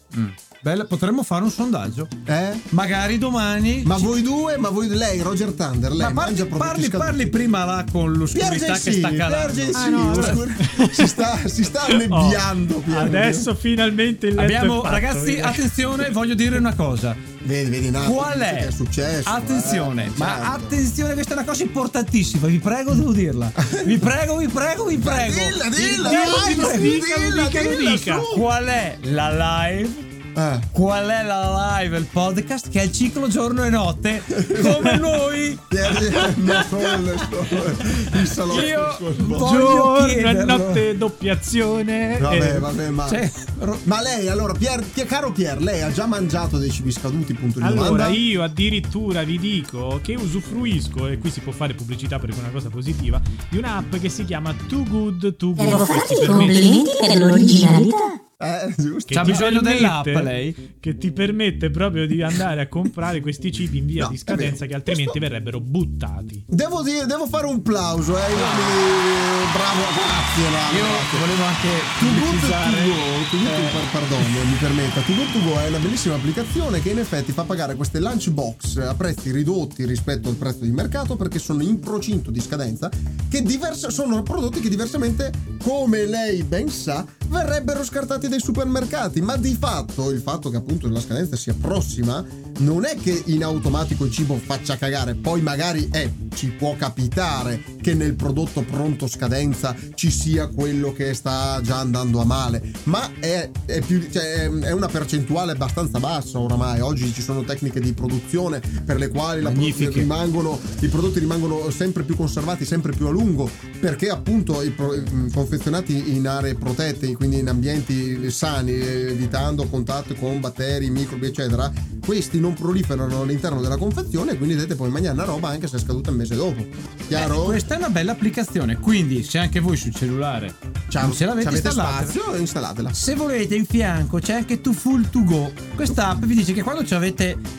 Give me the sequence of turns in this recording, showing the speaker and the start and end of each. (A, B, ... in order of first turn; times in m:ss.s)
0:00.1-0:02.1 A
0:02.2-0:02.6 B
0:02.7-0:04.1 A
0:03.8-0:07.3 B
0:06.0-0:10.4 A
0:08.3-0:13.5 B
0:09.7-0:11.2 C
0:11.8-0:15.8 C
0:14.4-0:17.2 A
0:17.4-0:20.8 B
0:18.0-0:18.7 A
0:19.2-0:27.0 A
0:23.6-0:24.0 B
0:24.9-0:28.4 B
0:25.9-0:28.3 C
0:28.3-0:30.0 A
0:30.3-0:30.7 B
0:30.7-0:36.2 A
0:34.4-0:35.0 B
0:34.7-0:35.0 C
0:35.7-0:39.5 B
0:38.5-0:40.8 A
0:39.3-0:42.7 C
0:42.2-0:43.2 B
0:43.1-0:43.8 A
0:43.8-0:48.2 B
0:47.6-0:56.7 C
0:55.6-0:58.2 D
0:58.4-0:59.4 B
0:59.1-1:06.4 C
0:59.1-1:00.6 A
1:04.0-1:05.2 B
1:06.5-1:11.2 B
1:08.3-1:08.8 A
1:10.7-1:14.1 A
1:12.0-2:07.6 B
1:49.4-1:50.1 A
2:07.1-2:12.2 A
2:10.9-2:13.0 B
2:12.9-2:17.4 A